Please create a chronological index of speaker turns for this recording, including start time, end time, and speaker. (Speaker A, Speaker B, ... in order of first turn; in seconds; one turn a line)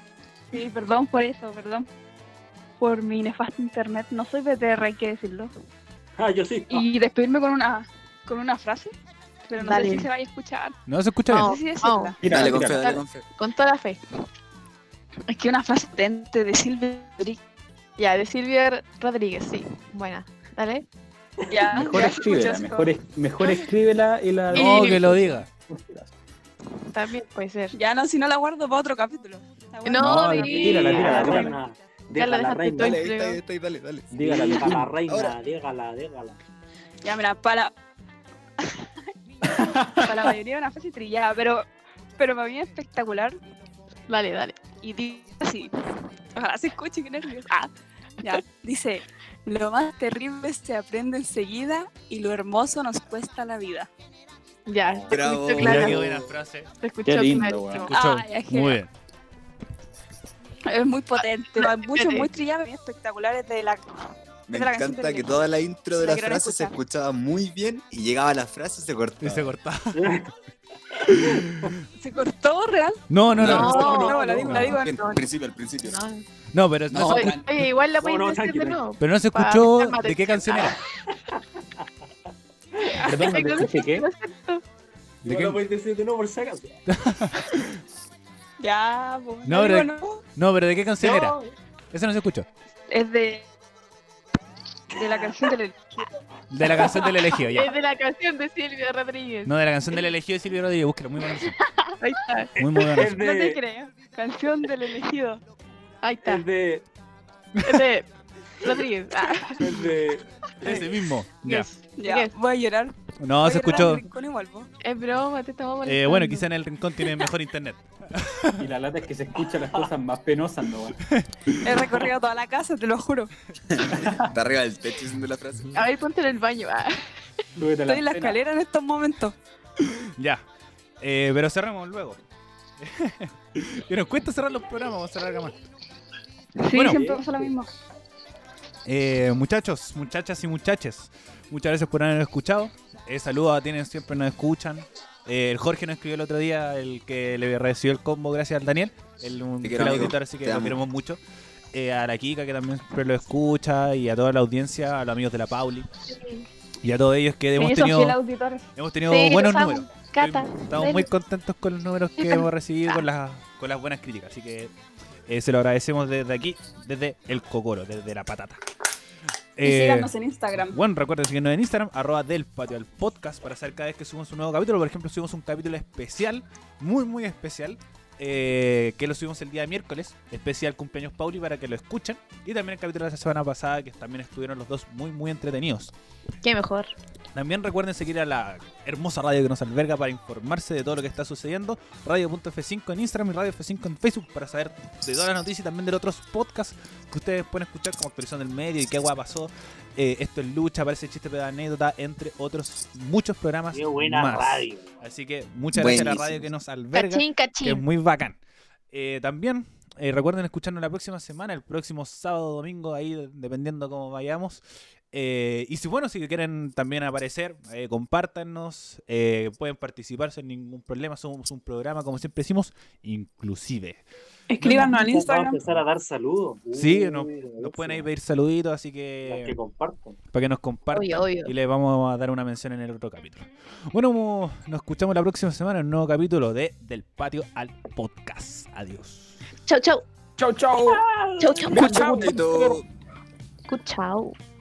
Speaker A: 0.5-1.9
Speaker A: 2.8-5.5
Speaker B: 6.2-6.8
Speaker A: 6.7-8.9
Speaker A: 9.5-10.8
Speaker C: 9.6-10.1
Speaker D: 10.9-11.5
Speaker C: 11.3-12.1
Speaker A: 11.3-12.2
Speaker E: 12.2-13.0
Speaker F: 12.2-13.3
Speaker C: 12.8-14.0
Speaker A: 15.3-17.4
Speaker C: 18.0-20.8
Speaker A: 21.5-22.9
Speaker E: 21.7-26.1
Speaker D: 24.5-25.5
Speaker C: 24.5-25.1
Speaker C: 26.9-27.7
Speaker A: 27.7-31.2
Speaker C: 29.8-31.5
Speaker E: 30.0-31.5
Speaker B: 30.4-33.0
Speaker C: 32.1-33.4
Speaker F: 32.8-34.1
Speaker E: 34.1-35.0
Speaker B: 34.2-36.4
Speaker F: 35.1-35.3
Speaker A: 37.0-37.7
Speaker A: 38.6-38.9
Speaker E: 39.5-40.2
Speaker A: 39.6-41.6
Speaker A: 42.2-43.4
Speaker C: 44.1-44.7
Speaker A: 44.8-45.7
Speaker A: 46.3-53.9
Speaker C: 54.7-56.0
Speaker F: 55.1-56.3
Speaker D: 55.5-56.7
Speaker C: 56.8-57.8
Speaker E: 57.0-57.9
Speaker A: 57.7-58.8
Speaker D: 57.7-58.9
Speaker A: 60.6-65.4
Speaker C: 61.6-62.3
Speaker F: 64.5-69.5
Speaker A: 66.0-66.8
Speaker D: 69.2-70.0
Speaker B: 69.9-70.3
Speaker B: 70.9-71.7
Speaker D: 71.0-71.8
Speaker A: 72.0-73.0
Speaker D: 73.1-74.6
Speaker C: 73.4-75.2
Speaker F: 73.4-76.0
Speaker B: 73.4-74.7
Speaker A: 73.7-75.0
Speaker C: 75.8-76.2
Speaker D: 76.5-77.4
Speaker F: 76.9-77.6
Speaker C: 77.0-80.8
Speaker B: 78.0-78.8
Speaker D: 79.0-80.8
Speaker E: 83.0-84.1
Speaker C: 83.0-84.6
Speaker D: 85.2-85.6
Speaker B: 85.2-86.8
Speaker D: 86.9-87.8
Speaker A: 88.6-90.2
Speaker D: 89.5-91.4
Speaker B: 91.0-91.5
Speaker D: 91.9-92.5
Speaker A: 92.9-93.5
Speaker A: 94.9-96.2
Speaker D: 96.5-97.7
Speaker A: 96.7-97.6
Speaker C: 97.5-99.5
Speaker D: 99.5-101.5
Speaker C: 102.0-102.5
Speaker D: 102.6-103.2
Speaker B: 102.6-103.6
Speaker A: 103.0-105.4
Speaker C: 106.0-106.4
Speaker B: 106.2-106.8
Speaker C: 107.6-108.1
Speaker C: 108.6-109.8
Speaker A: 109.2-109.5
Speaker B: 109.6-110.9
Speaker D: 110.6-111.7
Speaker C: 111.4-112.3
Speaker A: 112.0-114.7
Speaker D: 113.2-114.0
Speaker C: 114.8-116.5
Speaker D: 115.8-118.6
Speaker E: 118.6-121.0
Speaker D: 121.1-121.7
Speaker A: 121.6-123.3
Speaker F: 123.7-125.9
Speaker E: 123.9-124.3
Speaker C: 125.7-127.0
Speaker E: 127.6-128.4
Speaker A: 127.8-129.3
Speaker D: 129.8-130.4
Speaker D: 131.0-132.2
Speaker D: 132.8-135.5
Speaker A: 136.6-137.7
Speaker D: 136.7-137.0
Speaker B: 136.8-137.5
Speaker D: 138.8-151.2
Speaker F: 149.6-150.8
Speaker D: 151.7-155.9
Speaker C: 156.1-156.4
Speaker D: 156.8-158.2
Speaker A: 157.6-158.7
Speaker D: 158.7-164.7
Speaker C: 159.1-161.1
Speaker D: 165.3-168.6
Speaker D: 169.6-170.1
Speaker A: 169.6-170.8
Speaker D: 170.7-185.9
Speaker C: 186.4-186.9
Speaker D: 187.3-208.4
Speaker B: 203.7-204.9
Speaker F: 205.7-206.5
Speaker C: 206.9-207.8
Speaker D: 208.9-224.0
Speaker A: 224.5-225.6
Speaker B: 224.6-228.1
Speaker D: 224.6-224.9
Speaker D: 226.8-229.6
Speaker B: 229.2-230.2
Speaker D: 230.3-239.4
Speaker C: 230.9-231.5
Speaker C: 239.7-240.0
Speaker E: 240.4-241.0
Speaker A: 240.8-242.4
Speaker C: 241.4-241.9
Speaker E: 241.7-242.8
Speaker F: 241.7-242.8
Speaker C: 243.7-244.3